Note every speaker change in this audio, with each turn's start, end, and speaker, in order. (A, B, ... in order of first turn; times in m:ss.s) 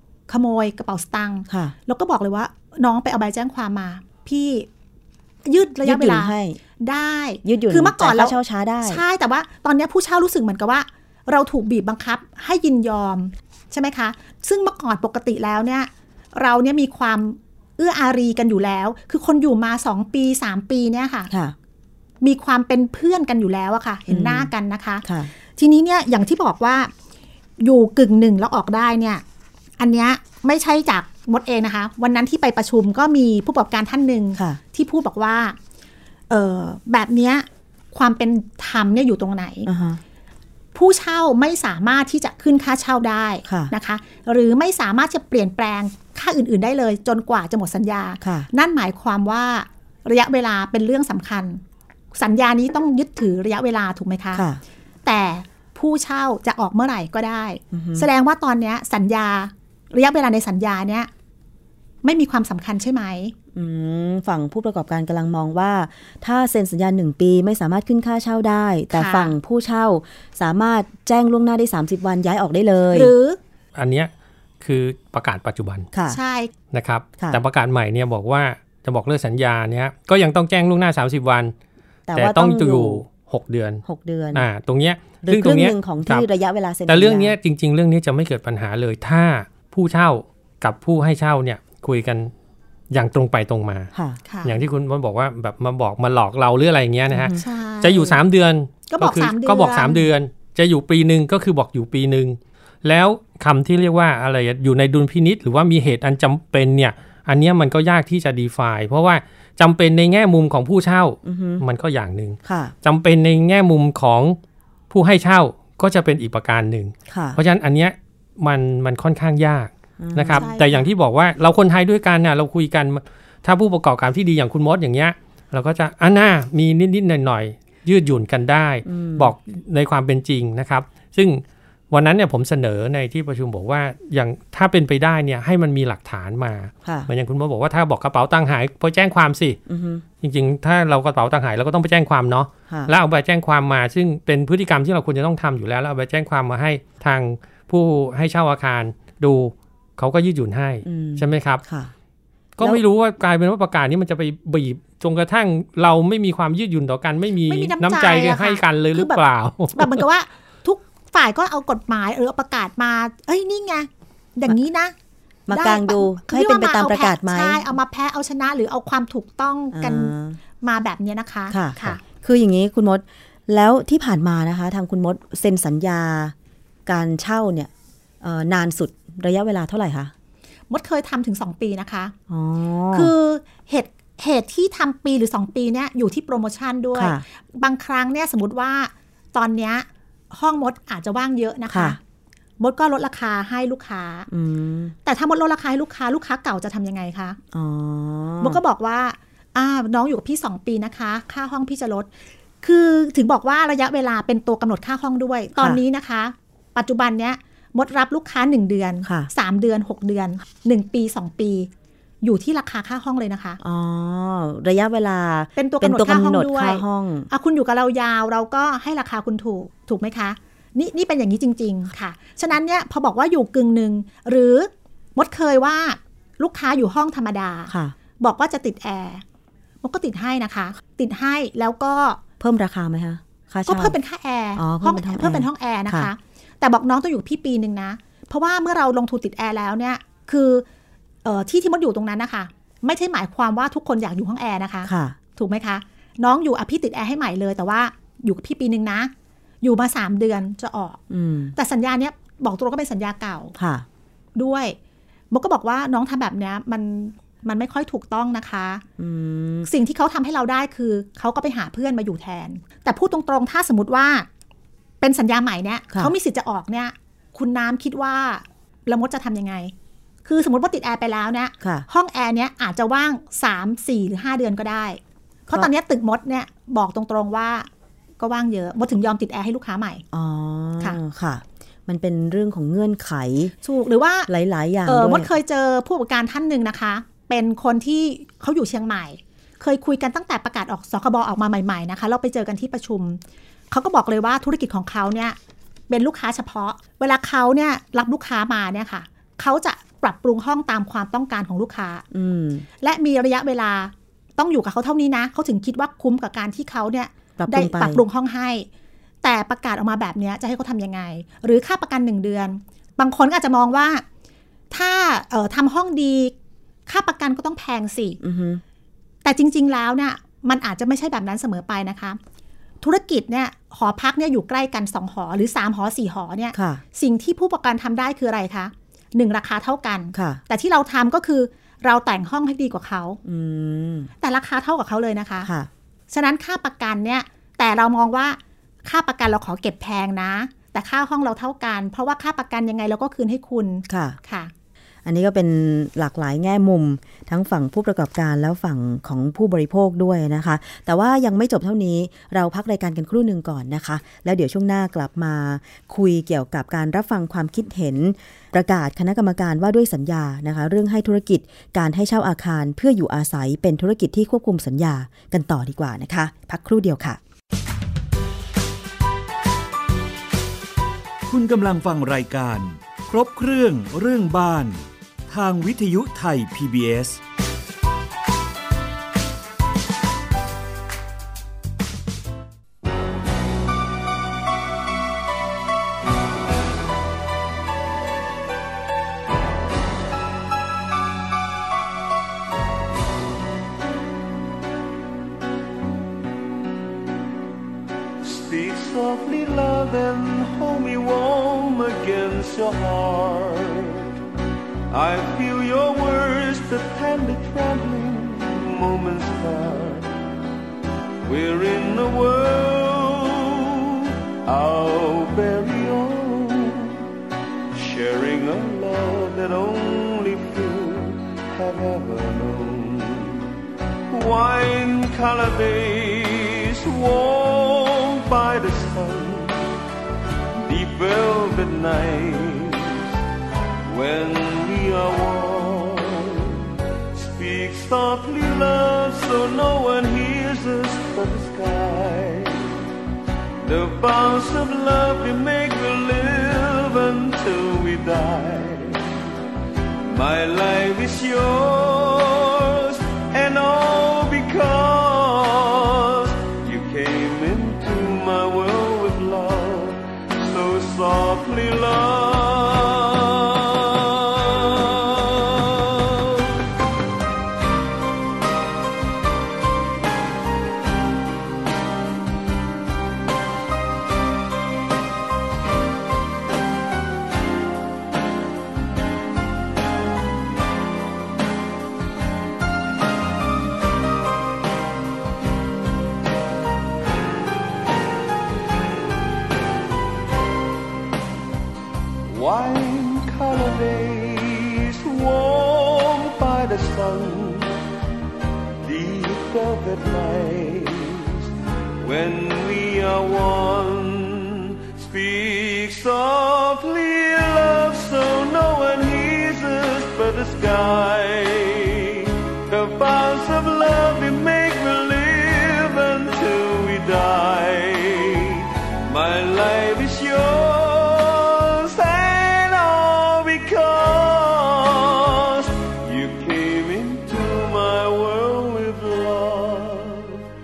0:00.3-0:04.7 A
0:01.5-0:01.8 B
0:05.4-0:21.3 A
0:05.8-0:06.6 B
0:07.4-0:09.0 B
0:21.3-0:21.6 B
0:22.2-0:26.9 A
0:24.1-0:24.5 B
0:25.0-0:25.3 B
0:27.6-0:29.2 A
0:29.8-0:35.6 A
0:36.3-0:39.7 A
0:39.7-0:40.0 B
0:40.8-0:51.6 A
0:43.4-0:43.7 B
0:48.2-0:48.5 B
0:52.1-0:54.4 A
0:54.3-0:54.6 B
0:55.0-1:01.1 A
0:57.7-0:58.1 B
1:02.0-1:03.3 A
1:03.5-1:13.1 B
1:08.9-1:09.3 A
1:12.9-1:13.4 A
1:13.8-1:14.1 C
1:14.6-1:15.9 C
1:15.9-1:16.2 B
1:16.1-1:16.5 A
1:16.7-1:21.5 C
1:22.1-1:23.0 B
1:22.1-1:26.3 C
1:23.8-1:24.5 B
1:25.2-1:27.4 B
1:26.9-1:32.3 C
1:32.9-1:33.9 C
1:33.9-1:34.2 B
1:34.3-1:34.5 A
1:34.4-1:54.4 C
1:37.1-1:37.4 B
1:37.3-1:38.2 A
1:38.9-1:40.1 A
1:51.2-1:51.6 B
1:52.4-1:52.7 B
1:54.9-2:19.6 C
1:57.1-1:57.4 B
2:00.0-2:00.5 B
2:00.3-2:00.9 A
2:08.9-2:09.3 B
2:16.8-2:17.1 B
2:19.7-2:20.0 B
2:20.2-2:31.6 C
2:30.8-2:31.9 B
2:32.6-2:40.0 C
2:37.5-2:44.9 A
2:45.5-2:47.6 B
2:45.5-2:52.0 A
2:49.7-2:50.4 B
2:51.5-2:56.3 B
2:56.9-3:00.1 B
3:00.7-3:02.1 A
3:02.3-3:03.1 B
3:02.9-3:12.0 A
3:07.0-3:07.2 B
3:11.7-3:12.0 B
3:12.6-3:14.3 A
3:14.3-3:14.9 B
3:15.0-3:17.4 A
3:17.5-3:18.6 B
3:18.4-3:22.1 A
3:22.6-3:31.7 A
3:32.2-3:33.6 A
3:33.6-3:37.3 B
3:35.6-3:49.2 A
3:47.7-3:48.0 B
3:49.8-3:52.2 A
3:52.4-3:54.0 B
3:53.7-4:00.6 A
3:54.6-3:56.1 B
4:01.2-4:09.1 A
4:04.8-4:05.2 B
4:09.6-4:11.0 A
4:11.1-4:11.5 B
4:11.6-4:13.6 A
4:13.6-4:13.9 B
4:14.4-4:14.8 A
4:15.3-4:18.8 A
4:19.0-4:19.7 B
4:19.7-4:24.3 A
4:25.0-4:29.7 A
4:30.2-4:37.7 A
4:31.6-4:31.9 B
4:38.2-4:40.0 A
4:40.1-4:43.5 B
4:43.6-4:44.3 A
4:44.3-4:45.3 B
4:44.9-4:55.4 A
4:55.9-5:02.0 A
5:02.1-5:02.7 B
5:02.8-5:08.7 A
5:07.4-5:08.0 B
5:09.2-5:14.0 A
5:14.7-5:16.3 A
5:16.9-5:18.2 A
5:18.2-5:18.6 B
5:19.2-5:22.2 A
5:22.8-5:33.2 A
5:26.5-5:26.8 B
5:30.1-5:30.4 B
5:33.2-5:34.1 B
5:34.2-5:35.5 A
5:35.4-5:35.7 B
5:36.1-5:44.5 A
5:43.9-5:44.2 B
5:45.0-6:07.2 B
6:11.3-6:17.2 D
6:38.2-6:44.2 E
6:44.9-6:50.1 E
6:51.2-6:57.0 E
6:57.7-7:03.5 E
7:04.1-7:09.7 E
7:10.6-7:13.2 E
7:13.9-7:22.8 E
7:23.6-7:29.2 E
7:30.0-7:46.7 E
8:12.2-8:17.8 E
8:18.8-8:50.5 E